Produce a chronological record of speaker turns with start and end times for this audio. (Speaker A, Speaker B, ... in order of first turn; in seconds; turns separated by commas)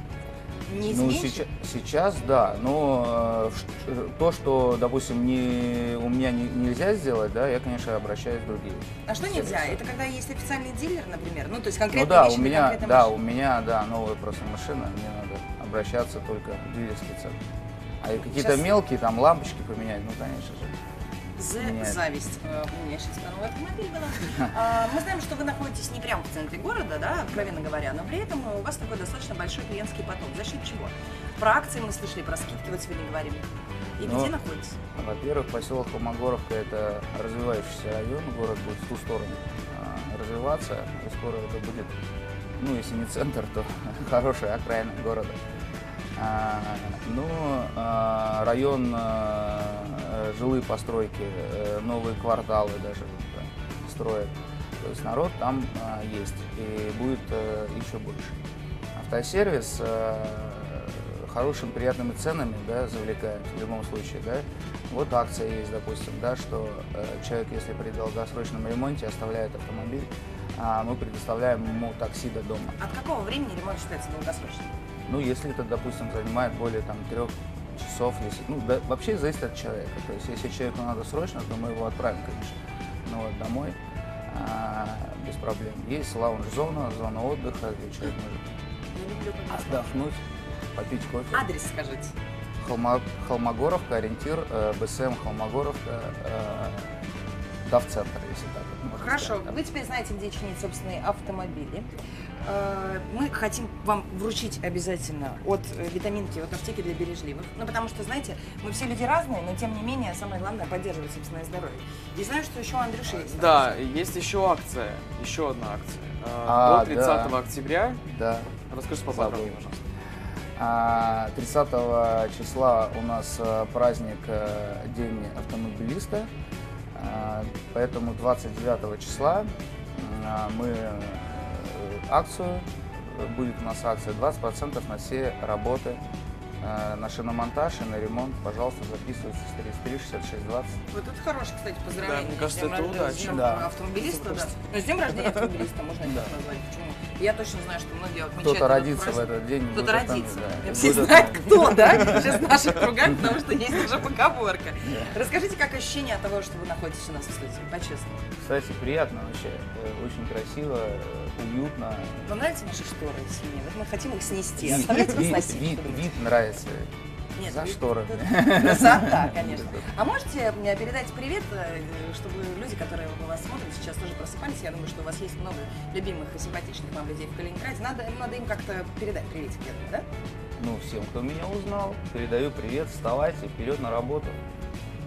Speaker A: 0.7-1.4, Speaker B: 0.8-9.8, Speaker A: 9.1-13.1, Speaker B: 11.9-17.4, Speaker B: 18.0-20.7, Speaker A: 18.2-18.7, Speaker A: 21.4-33.4, Speaker B: 21.6-22.0, Speaker A: 34.0-34.8, Speaker B: 34.0-34.3, Speaker B: 34.9-41.9, Speaker B: 42.6-45.4, Speaker B: 46.2-58.4, Speaker B: 58.9-72.8, Speaker A: 72.8-74.8, Speaker B: 75.1-83.8, Speaker B: 84.3-88.4, Speaker A: 88.9-89.9, Speaker B: 89.5-90.2, Speaker B: 90.8-91.4, Speaker A: 91.3-92.1, Speaker B: 92.6-96.9, Speaker B: 97.6-99.5, Speaker A: 98.9-101.9, Speaker A: 102.4-113.7, Speaker C: 113.1-118.0, Speaker B: 116.5-117.4, Speaker B: 118.1-118.6, Speaker C: 118.7-119.8, Speaker B: 119.1-119.6, Speaker B: 120.5-126.3, Speaker B: 126.9-136.0, Speaker B: 136.6-140.8, Speaker A: 140.9-158.2, Speaker C: 142.0-143.6, Speaker B: 143.3-143.7, Speaker B: 148.4-152.4, Speaker B: 154.8-155.1, Speaker B: 158.4-162.2, Speaker A: 162.2-166.1, Speaker B: 164.6-166.9, Speaker A: 167.3-180.1, Speaker B: 167.4-169.9, Speaker B: 180.6-184.4